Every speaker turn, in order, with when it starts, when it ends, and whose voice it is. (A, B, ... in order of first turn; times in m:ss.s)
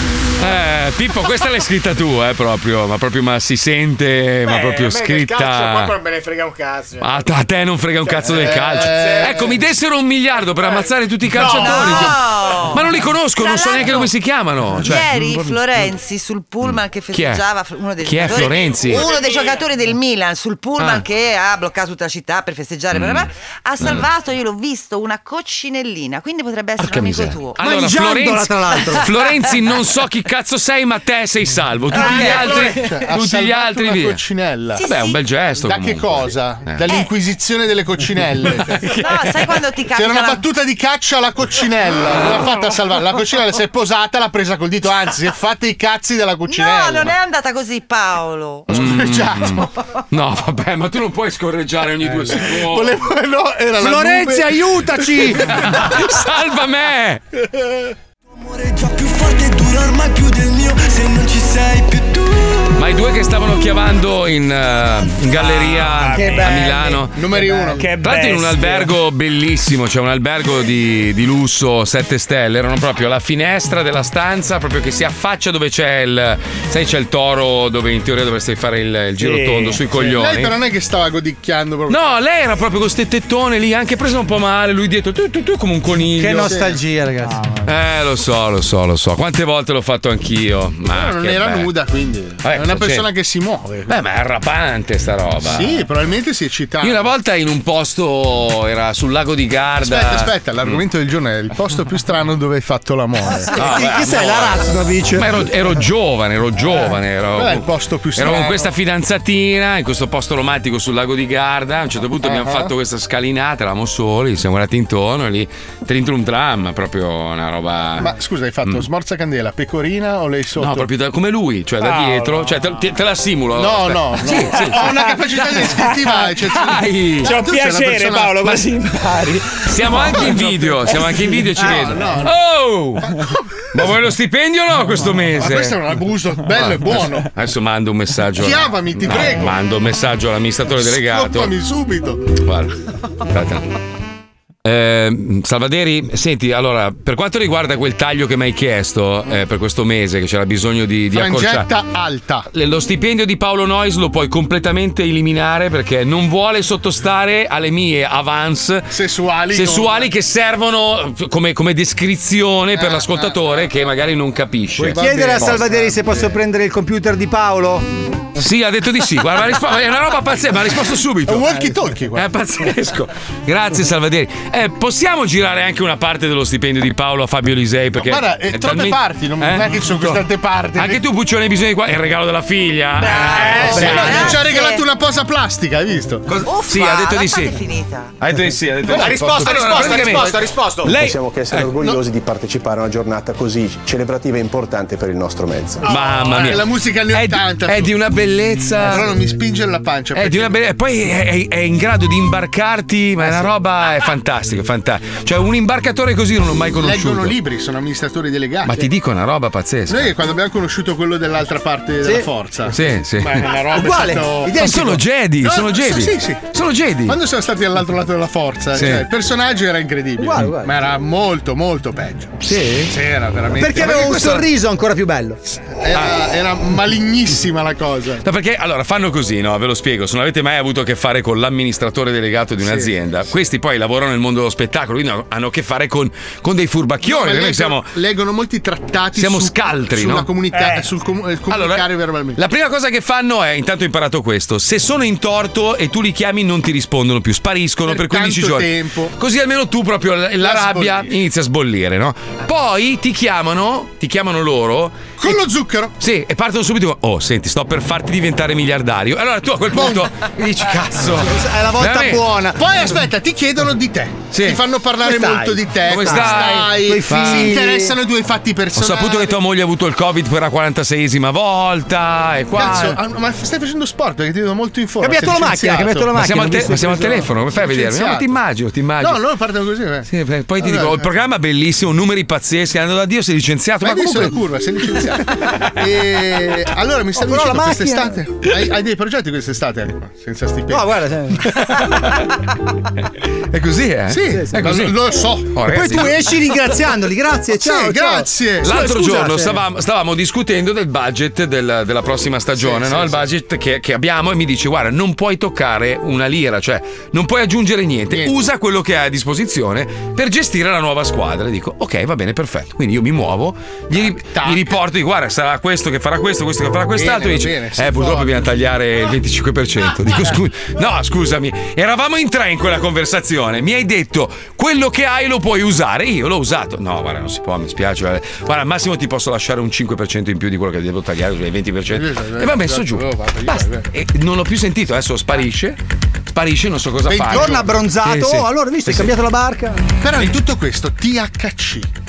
0:00.4-0:06.0 A
0:04.4-0:07.2 B
0:07.0-0:15.6 A
0:08.0-0:09.5 B
0:08.4-0:09.5 C
0:11.3-0:12.0 B
0:11.4-0:14.1 D
0:14.8-0:27.6 D
0:16.6-0:17.4 A
0:18.0-0:19.1 A
0:19.0-0:19.5 B
0:20.8-0:21.0 A
0:22.9-0:24.1 A
0:26.8-0:34.2 A
0:27.6-0:29.1 E
0:31.9-0:34.9 C
0:34.8-0:35.2 D
0:34.8-0:36.9 A
0:35.6-0:38.8 C
0:36.8-0:37.1 D
0:38.4-0:39.6 A
0:39.0-0:40.4 D
0:39.9-0:47.1 C
0:46.4-0:48.7 D
0:48.7-0:49.7 C
0:48.7-0:53.0 A
0:52.3-0:56.0 C
0:53.8-0:55.6 E
0:55.4-0:57.2 A
0:59.0-1:01.5 F
1:02.7-1:07.2 A
1:05.3-1:06.9 G
1:06.2-1:06.8 E
1:07.1-1:07.9 C
1:07.5-1:08.9 G
1:08.0-1:20.5 A
1:19.2-1:19.8 G
1:19.9-1:22.0 C
1:21.9-1:26.6 A
1:26.2-1:27.4 E
1:26.4-1:26.8 C
1:27.6-1:31.7 A
1:30.9-1:34.0 C
1:32.4-1:33.1 A
1:33.9-1:35.7 A
1:35.4-1:37.1 C
1:36.8-1:40.8 A
1:39.8-1:43.7 C
1:43.5-1:45.4 E
1:43.5-1:44.6 A
1:45.1-1:58.1 A
1:47.3-1:48.7 C
1:52.2-1:52.7 C
1:58.0-2:00.9 C
2:00.6-2:07.3 A
2:02.0-2:02.4 G
2:03.5-2:08.5 C
2:07.2-2:09.7 G
2:08.4-2:08.7 A
2:09.5-2:13.1 A
2:10.1-2:12.3 C
2:13.0-2:13.8 C
2:13.7-2:15.8 A
2:15.4-2:17.3 C
2:16.5-2:21.5 A
2:18.4-2:19.6 C
2:20.8-2:22.4 C
2:22.4-2:23.6 A
2:24.6-2:31.7 A
2:31.1-2:32.5 C
2:32.5-2:38.9 A
2:38.9-2:40.1 C
2:39.5-2:45.6 A
2:42.7-2:43.5 C
2:44.8-2:46.3 C
2:44.8-2:47.9 E
2:48.4-2:51.5 A
2:51.2-2:52.3 C
2:52.1-3:00.2 A
2:58.0-3:01.0 C
3:00.7-3:04.3 A
3:03.0-3:03.7 B
3:03.6-3:04.4 E
3:03.6-3:06.3 C
3:03.9-3:04.8 D
3:06.3-3:07.6 A
3:06.4-3:08.1 D
3:08.2-3:11.8 A
3:08.9-3:10.9 B
3:08.9-3:10.3 C
3:10.9-3:15.8 H
3:15.8-3:19.1 A
3:15.8-3:16.2 B
3:16.3-3:17.9 C
3:18.8-3:20.6 C
3:20.1-3:27.4 A
3:23.2-3:23.5 E
3:26.8-3:28.8 C
3:28.6-3:30.1 A
3:29.9-3:34.5 C
3:32.7-3:33.5 A
3:33.7-3:35.0 E
3:34.5-3:37.2 A
3:35.4-3:36.5 C
3:37.0-3:44.5 C
3:38.7-3:39.0 A
3:40.2-3:40.7 E
3:42.4-3:42.9 A
3:43.6-3:45.4 E
3:45.7-3:48.2 C
3:48.2-3:57.9 A
3:52.6-3:53.0 C
3:57.0-4:02.4 C
3:59.1-4:00.3 A
4:00.5-4:00.8 G
4:01.5-4:15.4 A
4:07.8-4:09.1 C
4:10.4-4:11.1 C
4:15.2-4:15.9 C
4:16.0-4:22.2 A
4:19.7-4:20.1 C
4:21.1-4:22.6 E
4:22.6-4:29.4 C
4:24.3-4:24.6 A
4:25.0-4:27.9 E
4:25.9-4:27.5 A
4:28.8-4:33.0 A
4:32.5-4:36.1 C
4:35.0-4:37.3 E
4:36.1-4:39.2 A
4:37.5-4:38.4 C
4:39.0-4:40.1 C
4:40.0-4:44.4 A
4:40.6-4:41.1 C
4:43.8-4:52.0 C
4:47.2-4:48.2 E
4:50.7-4:51.6 E
4:53.5-4:56.2 A
4:54.1-4:56.1 C
4:55.7-4:58.3 E
4:57.5-4:59.3 C
4:58.6-5:39.1 A
4:59.0-4:59.5 E
5:02.6-5:03.2 C
5:13.9-5:14.8 C
5:16.9-5:18.6 C
5:31.9-5:33.8 C
5:37.0-5:37.7 C
5:37.3-5:39.8 E
5:40.0-5:41.9 C